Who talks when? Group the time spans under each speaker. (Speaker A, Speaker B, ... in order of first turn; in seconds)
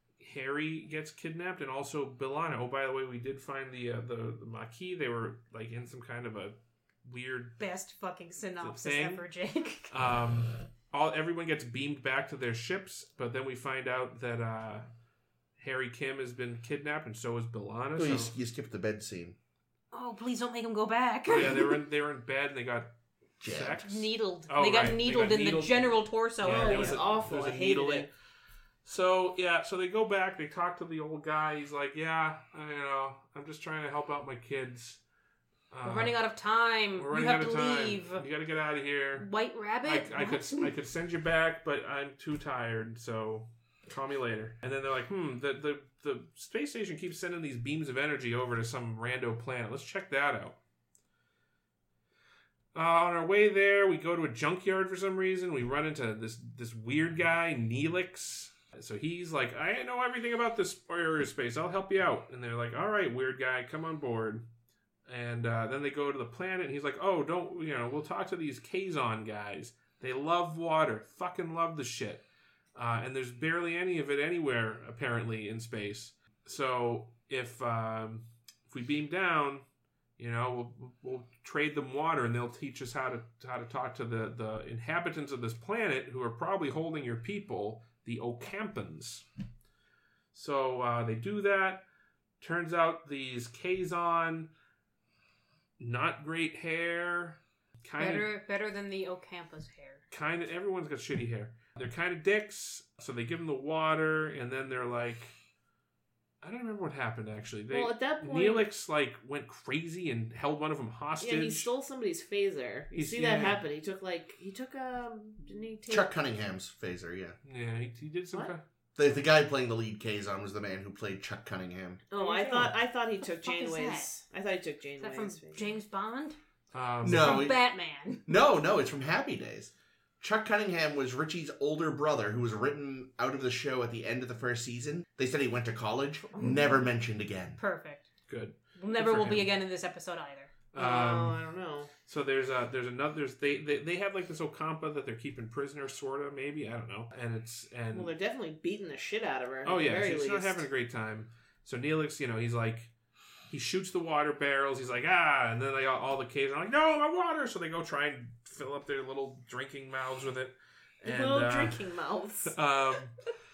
Speaker A: 0.2-7.6, 8.6-9.2, 9.9-14.8, 15.6-18.3, 21.3-22.9, 23.4-28.1, 28.8-35.0, 35.7-36.2, 36.9-39.3, 39.8-50.6, 52.7-64.5, 65.1-79.6, 80.2-89.2, 90.3-91.8, 92.4-94.5, 95.8-98.3, 100.1-105.3, 106.4-111.7, 112.9-113.6, 117.4-118.6, 126.7-127.5, 138.3-139.5, 140.7-141.4, 142.1-148.1, 149.6-152.9, 153.5-161.9, 162.4-163.2
Speaker B: 7.6-9.9, 19.9-21.6, 23.8-27.0, 35.8-38.2, 39.2-40.7, 98.0-100.0, 123.4-124.1, 125.0-126.4, 127.1-128.2, 137.6-138.1, 138.8-140.5
Speaker C: 17.9-19.3, 23.4-23.8, 115.9-117.3, 119.0-122.7, 127.0-127.6, 128.2-137.6
Speaker D: 26.4-28.1, 107.7-108.6, 111.2-116.1, 122.1-125.7, 136.3-136.7, 140.8-141.9, 147.9-150.6, 161.0-162.5